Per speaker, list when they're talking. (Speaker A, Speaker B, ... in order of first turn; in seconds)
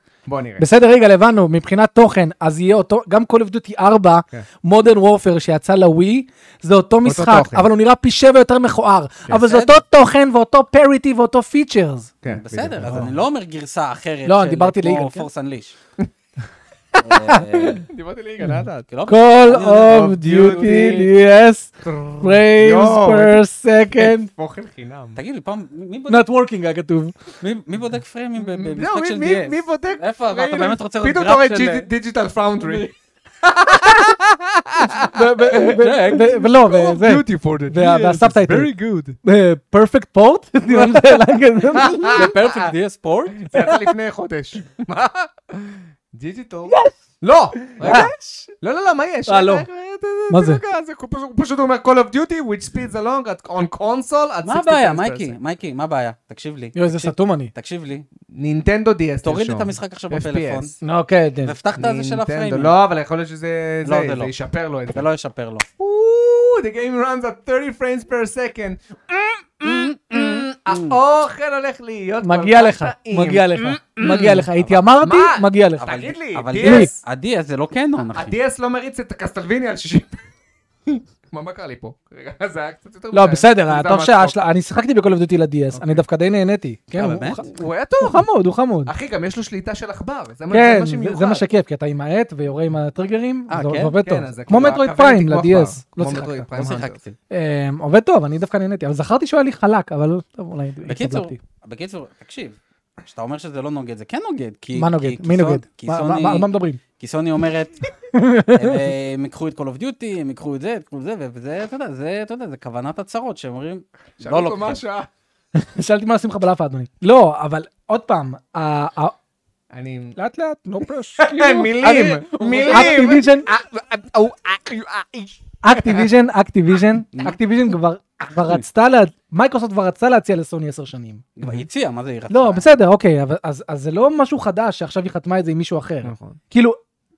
Speaker A: 0.3-0.6, 7.0-7.7, 12.2-13.2, 17.9-18.9, 19.9-21.1, 21.8-23.4, 23.9-25.2, 28.4-32.9, 33.4-39.2, 40.7-41.0, 41.7-42.7, 43.4-55.4, 58.3-60.7, 61.8-65.0, 65.8-74.5, 75.0-77.0, 78.1-80.2, 80.9-84.4, 85.7-86.0, 87.0-88.3, 88.9-91.5, 94.0-97.0, 114.2-115.1, 119.7-120.2, 121.2-126.1, 136.0-136.4
Speaker B: 0.6-12.1, 14.2-15.3, 17.1-17.8, 18.4-24.3, 26.1-27.2, 35.1-38.7, 39.2-42.3, 46.7-47.0, 47.8-48.5, 49.3-49.7, 50.3-50.6, 56.8-57.5, 60.8-61.6, 72.2-75.9, 76.6-76.9, 83.1-88.9, 90.5-96.5, 97.3-101.4, 104.8-106.8, 108.1-108.9, 115.5-119.1, 120.2-123.5, 125.6-131.2, 132.3-136.8
Speaker C: 9.3-9.8, 12.3-15.8, 17.0-17.9, 18.9-21.1, 25.2-26.3, 27.4-31.9, 32.6-32.9, 35.9-36.3, 41.7-43.5, 54.5-58.1, 59.2-60.8, 61.4-62.8, 63.8-64.3, 64.9-65.7, 69.7-71.0, 75.8-78.3, 87.0-87.4, 93.5-94.0, 96.6-97.1, 100.9-107.8, 108.5-114.8, 122.5-122.9, 131.4-132.7